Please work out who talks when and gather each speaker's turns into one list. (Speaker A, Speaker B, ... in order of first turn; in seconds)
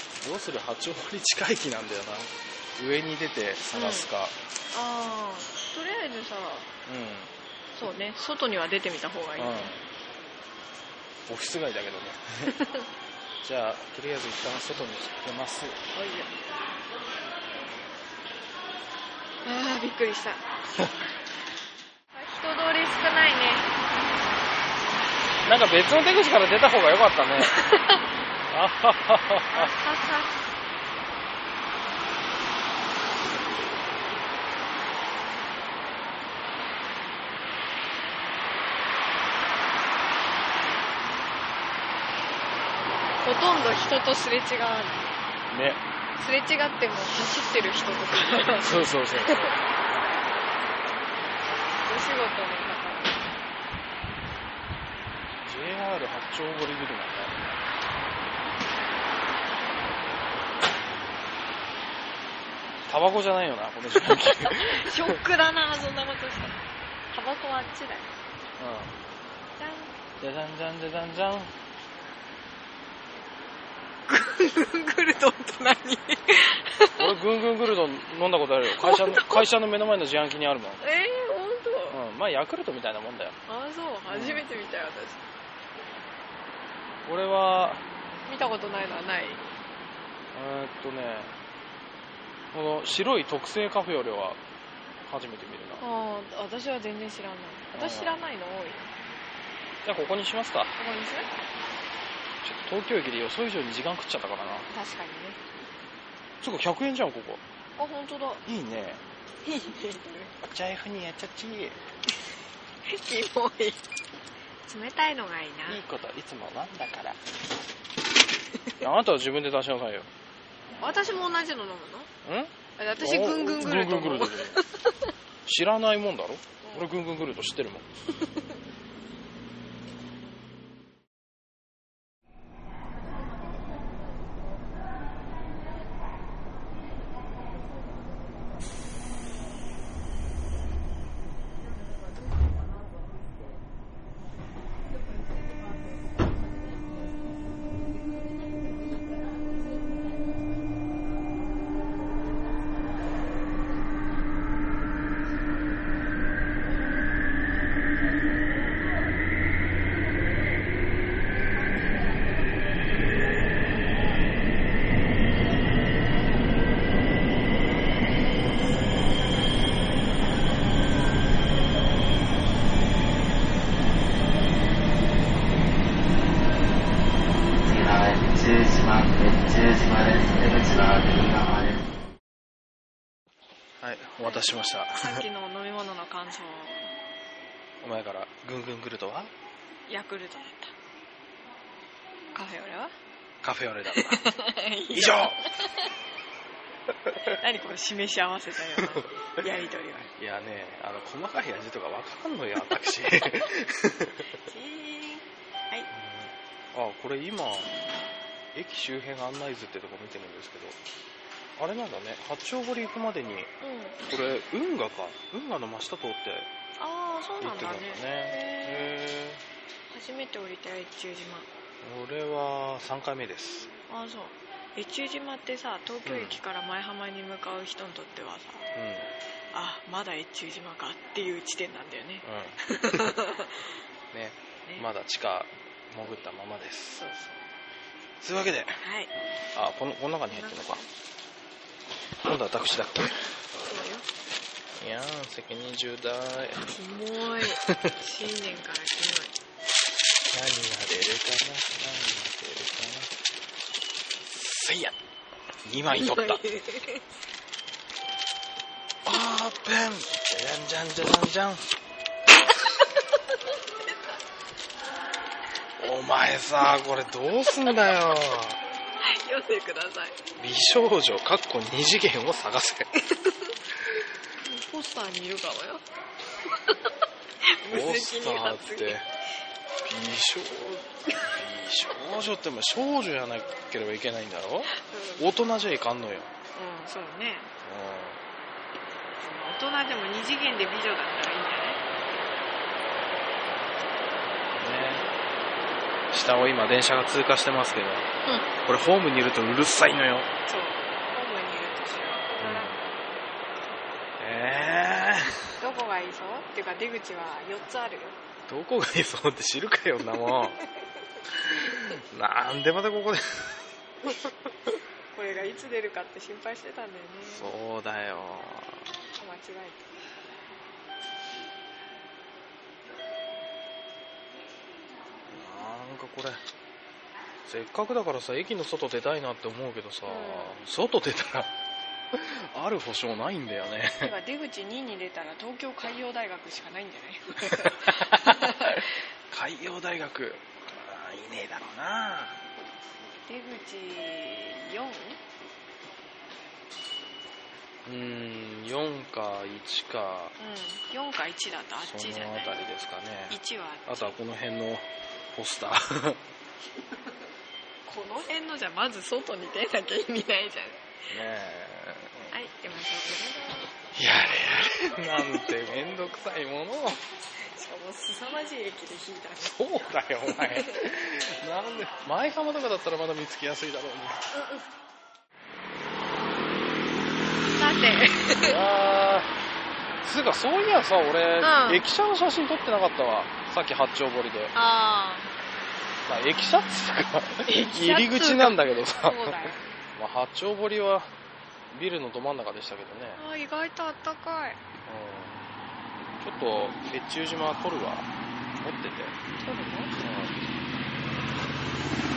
Speaker A: 0.2-4.3, 6.9-7.3, 9.4-9.8, 11.3-12.5, 13.4-15.8, 25.4-27.6, 28.5-29.7, 45.5-45.8, 48.6-49.6, 55.4-57.6, 62.9-65.2, 68.6-69.0, 70.2-71.5, 77.0-80.8, 81.9-83.4, 84.1-84.5, 87.0-87.8, 90.3-91.3, 92.5-94.4, 95.0-95.8, 97.7-98.2, 99.8-100.7, 102.4-104.7, 106.4-107.4, 108.5-109.0, 110.4-111.8, 115.7-117.2, 118.8-120.1, 122.2-124.6, 125.5-127.9, 183.8-185.2, 187.8-189.3, 193.4-194.3, 194.9-195.4, 197.1-197.3, 198.8-199.1, 200.1-204.3, 205.9-207.7, 208.5-210.8, 211.6-213.5, 214.1-216.5, 217.4-219.4, 221.8-223.7, 226.1-226.4, 228.8-229.1, 232.2-233.0, 234.1-237.0, 238.2-238.8, 239.5-240.8, 242.2-243.2, 244.8-246.7, 247.7-247.9, 250.3-253.1, 254.2-255.0, 255.6-256.4, 259.1-261.6, 265.8-268.6, 270.4-272.9, 277.7-279.1, 279.9-286.3, 287.6-288.2, 294.6-295.1, 296.1-298.1, 298.6-300.3, 302.4-302.8, 304.2-305.4, 308.5-310.6, 311.3-314.3, 317.2-318.9, 325.3-326.4, 327.5-331.5, 332.1-334.1, 337.4-342.4, 347.9-350.4, 351.8-356.2, 361.1-362.4, 363.9-367.0, 369.4-374.4, 378.4-379.3, 380.0-384.5, 386.1-391.1, 391.7-393.2, 394.9-395.4, 396.2-399.2, 400.0-400.4
Speaker B: 3.7-4.1, 4.7-6.7, 7.8-9.8, 12.5-12.9, 15.9-16.3, 19.4-20.5, 22.1-23.7, 27.4-28.0, 29.5-30.4, 43.2-45.1, 46.2-49.5, 51.8-53.3, 64.5-66.6, 67.1-68.1, 69.6-69.9, 74.1-77.1, 78.7-79.5, 80.8-82.0, 83.5-85.3, 88.3-89.4, 95.8-98.9, 100.8-101.3, 104.7-105.4, 107.8-108.4, 109.4-110.3, 112.8-113.8, 114.7-115.8, 120.8-122.1, 122.8-125.0, 126.6-126.9, 184.2-187.0, 189.9-190.7, 192.3-192.9, 193.9-195.9, 197.3-200.1, 204.4-205.9, 213.6-214.0, 216.8-218.9, 219.9-221.5, 223.9-228.7, 229.5-233.7, 236.9-237.5, 238.8-239.1, 240.3-240.9, 243.6-244.1, 246.6-249.4, 255.9-257.1, 262.9-264.1, 269.0-270.2, 273.0-273.5, 274.4-275.8, 276.5-276.8, 277.4-279.0, 284.7-285.3, 286.6-287.5, 289.2-291.8, 298.2-298.5, 300.5-302.8, 305.6-308.2, 310.6-310.9, 315.1-317.5, 319.2-320.0, 330.1-330.6, 334.0-338.9, 343.3-345.2, 350.4-352.7, 353.3-354.1, 357.9-360.9, 362.3-363.8, 367.4-370.9, 374.3-374.7, 377.6-378.6, 381.4-381.8, 384.5-385.3, 387.5-389.7, 393.2-394.6, 399.4-400.0
Speaker C: 177.6-181.9